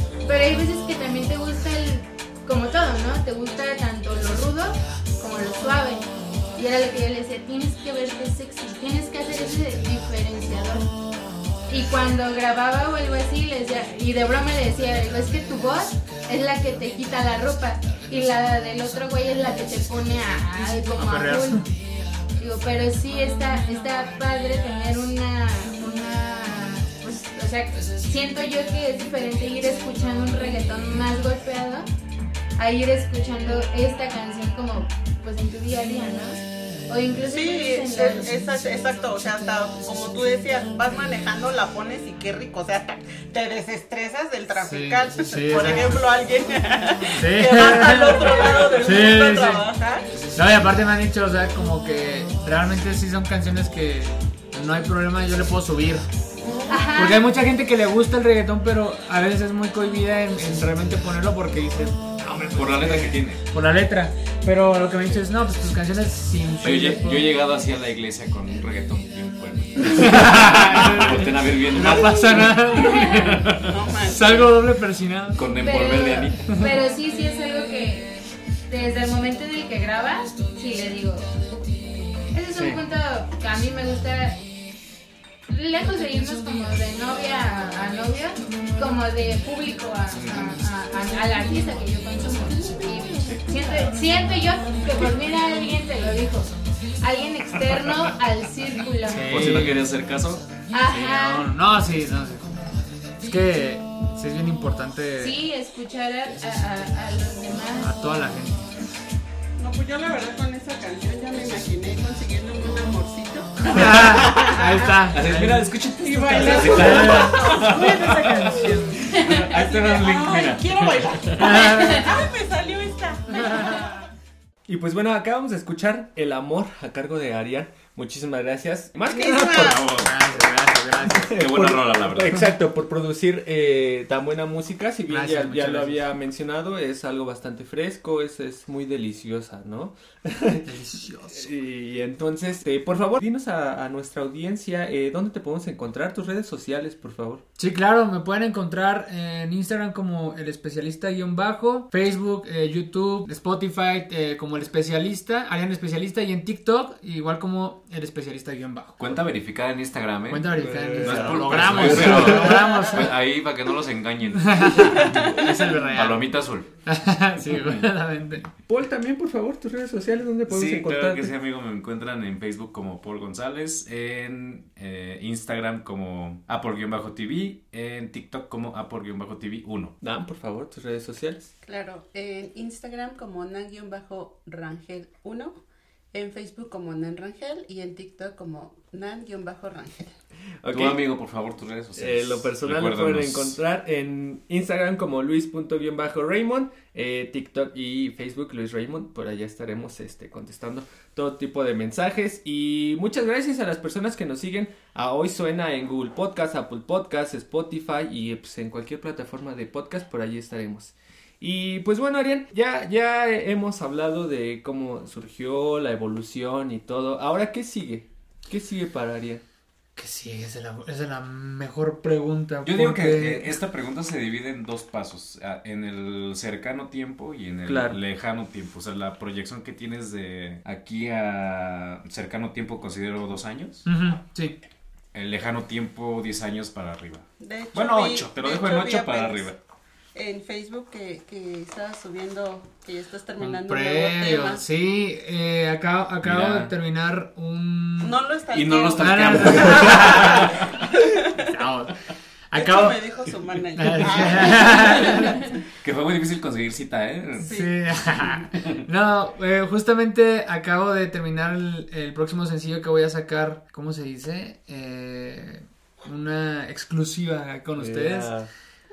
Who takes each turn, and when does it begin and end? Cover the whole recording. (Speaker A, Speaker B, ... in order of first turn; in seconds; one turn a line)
Speaker A: 0.2-10.9
Speaker A: 11.7-21.7
Speaker B: 20.9-21.7
Speaker A: 22.4-31.9
Speaker A: 32.6-38.4
Speaker C: 37.2-50.1
Speaker B: 44.6-46.0
Speaker B: 47.2-49.7
Speaker B: 50.3-56.0
Speaker C: 56.4-56.8
Speaker A: 56.7-57.3
Speaker B: 56.9-67.3
Speaker D: 62.5-63.4
Speaker D: 66.6-73.7
Speaker B: 70.0-73.3
Speaker C: 72.7-74.6
Speaker B: 74.1-75.5
Speaker D: 75.3-76.5
Speaker A: 75.6-78.1
Speaker A: 78.7-81.3
Speaker A: 82.3-84.4
Speaker A: 85.5-99.7
Speaker D: 90.1-90.5
Speaker C: 92.6-93.8
Speaker D: 93.2-93.8
Speaker B: 99.1-99.9
Speaker D: 99.3-100.4
Speaker A: 100.7-101.5
Speaker B: 100.9-105.3
Speaker A: 105.2-107.9
Speaker B: 107.8-108.7
Speaker C: 109.6-114.8
Speaker B: 113.7-115.7
Speaker D: 115.1-118.5
Speaker C: 116.0-124.0
Speaker B: 116.4-119.0
Speaker D: 119.0-121.5
Speaker A: 119.1-119.5
Speaker B: 121.4-122.1
Speaker B: 123.4-123.8
Speaker E: 124.7-129.7
Speaker C: 129.1-129.9
Speaker D: 129.3-130.1
Speaker B: 130.0-131.3
Speaker E: 131.1-140.7
Speaker D: 131.4-132.4
Speaker B: 135.1-136.0
Speaker B: 140.6-141.5
Speaker E: 141.3-147.4
Speaker B: 147.6-159.0
Speaker D: 159.0-160.5
Speaker B: 160.3-163.1
Speaker E: 160.5-162.6
Speaker D: 161.0-166.7
Speaker B: 164.4-168.5
Speaker C: 164.8-165.3
Speaker D: 167.5-167.8
Speaker E: 168.7-171.3
Speaker D: 170.5-179.9
Speaker E: 180.0-181.5
Speaker C: 181.6-185.5
Speaker C: 186.1-190.1
Speaker E: 190.6-191.0
Speaker D: 190.7-193.6
Speaker E: 191.9-219.4
Speaker B: 219.9-223.6
Speaker D: 222.6-233.9
Speaker E: 227.7-228.0
Speaker B: 233.8-234.6
Speaker D: 235.1-239.6
Speaker C: 237.4-239.5
Speaker C: 240.1-244.6
Speaker B: 243.4-248.2
Speaker D: 246.2-246.7
Speaker C: 248.0-251.5
Speaker D: 248.5-250.7
Speaker B: 249.0-250.4
Speaker B: 251.4-251.9
Speaker B: 252.5-253.0
Speaker C: 252.5-255.6
Speaker B: 253.8-255.4
Speaker D: 255.8-257.5
Speaker C: 257.4-258.3
Speaker B: 257.5-268.3
Speaker E: 267.8-268.5